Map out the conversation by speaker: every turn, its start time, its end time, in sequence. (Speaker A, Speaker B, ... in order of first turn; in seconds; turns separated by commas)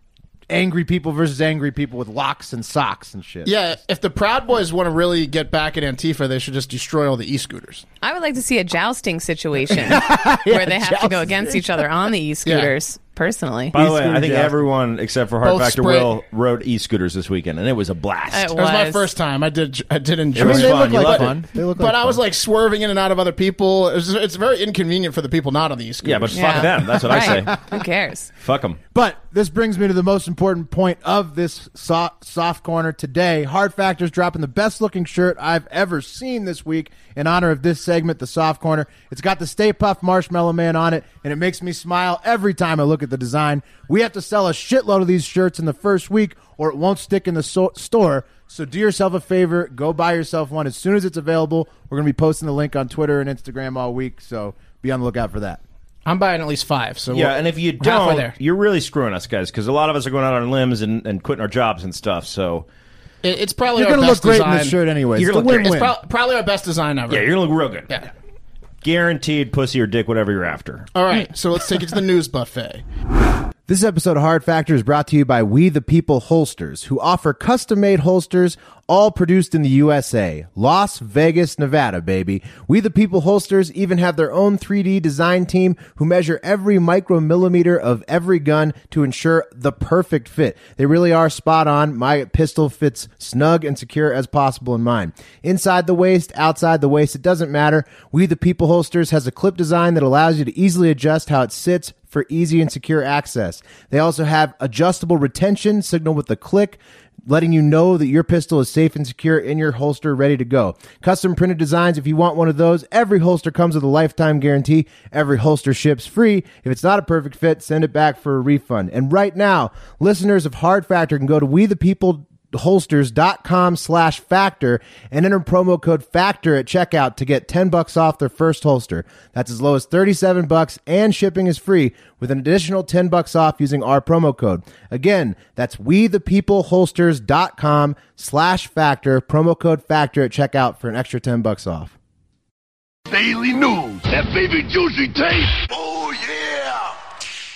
Speaker A: 0.5-3.6, Speaker B: 3.5-7.9, Speaker C: 8.0-13.8, Speaker A: 9.7-11.6, Speaker B: 12.5-12.7, Speaker D: 13.7-18.5, Speaker A: 13.7-14.6, Speaker B: 15.4-16.1, Speaker C: 18.3-19.1, Speaker B: 18.5-26.8, Speaker D: 20.4-21.4, Speaker A: 20.4-22.2, Speaker D: 26.0-27.6, Speaker C: 26.3-28.3, Speaker A: 27.1-27.4, Speaker D: 28.4-28.8, Speaker A: 28.9-55.6, Speaker B: 56.1-58.3, Speaker D: 57.1-62.7, Speaker B: 63.2-64.8, Speaker A: 63.8-66.0, Speaker D: 65.2-65.7, Speaker B: 65.4-67.3, Speaker D: 67.1-67.9, Speaker D: 68.8-70.9, Speaker B: 71.0-72.8, Speaker A: 73.7-141.9, Speaker E: 143.1-146.9